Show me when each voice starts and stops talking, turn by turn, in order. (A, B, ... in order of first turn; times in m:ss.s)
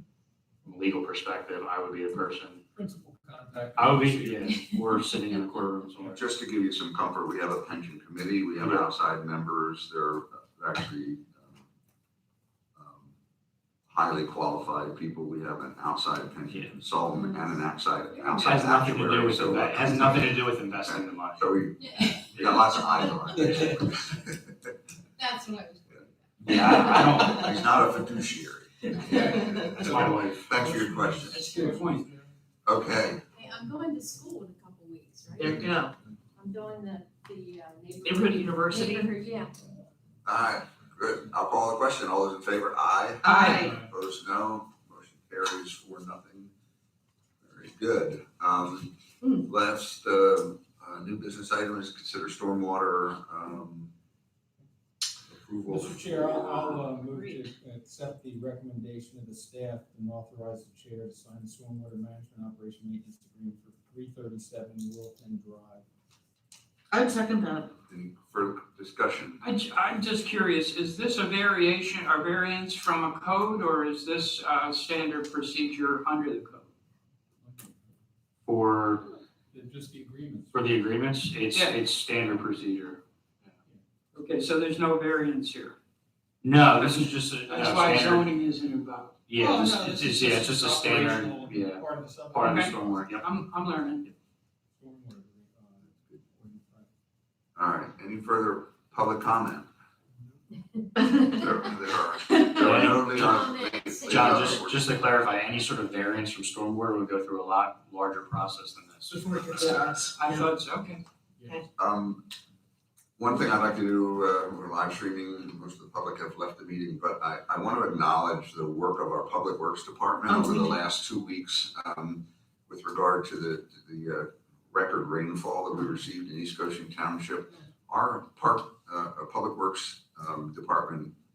0:00.6-0:02.6 A
0:02.8-0:04.5 B
0:03.7-0:06.2 A
0:06.1-0:11.6 C
0:08.6-0:08.8 A
0:12.8-0:13.1 C
0:13.9-0:20.3 C
0:17.2-0:17.5 D
0:18.1-0:18.4 D
0:18.4-0:21.5 A
0:20.9-0:24.3 C
0:21.8-0:22.3 D
0:25.2-0:26.1 D
0:26.4-0:27.5 E
0:26.5-0:27.5 A
0:26.6-0:31.6 C
0:29.3-0:29.7 F
0:29.8-0:30.5 A
0:31.2-0:32.1 E
0:32.6-0:33.2 C
0:33.3-0:35.4 D
0:35.4-0:35.9 F
0:36.4-0:39.5 D
0:38.0-0:39.2 F
0:40.2-0:46.5 C
0:43.2-0:43.7 F
0:47.4-0:48.9 C
0:49.4-0:53.9 C
0:55.2-0:56.9 C
0:55.7-1:05.8 B
1:06.9-1:07.7 F
1:07.9-1:09.4 C
1:09.4-1:16.7 E
1:17.4-1:17.8 B
1:18.4-1:19.1 A
1:19.5-1:20.6 B
1:20.5-1:23.5 A
1:21.5-1:21.8 E
1:24.1-1:25.8 E
1:26.4-1:28.3 A
1:27.4-1:30.2 E
1:29.3-1:33.4 A
1:29.4-1:33.1 B
1:32.4-1:34.0 E
1:34.8-1:36.9 B
1:37.6-1:39.7 C
1:41.2-1:44.8 C
1:42.5-1:43.5 A
1:43.3-1:44.6 D
1:44.0-1:49.8 A
1:49.3-1:50.3 F
1:49.5-1:51.0 E
1:51.8-1:52.2 C
1:53.2-2:11.1 C
2:00.3-2:00.8 F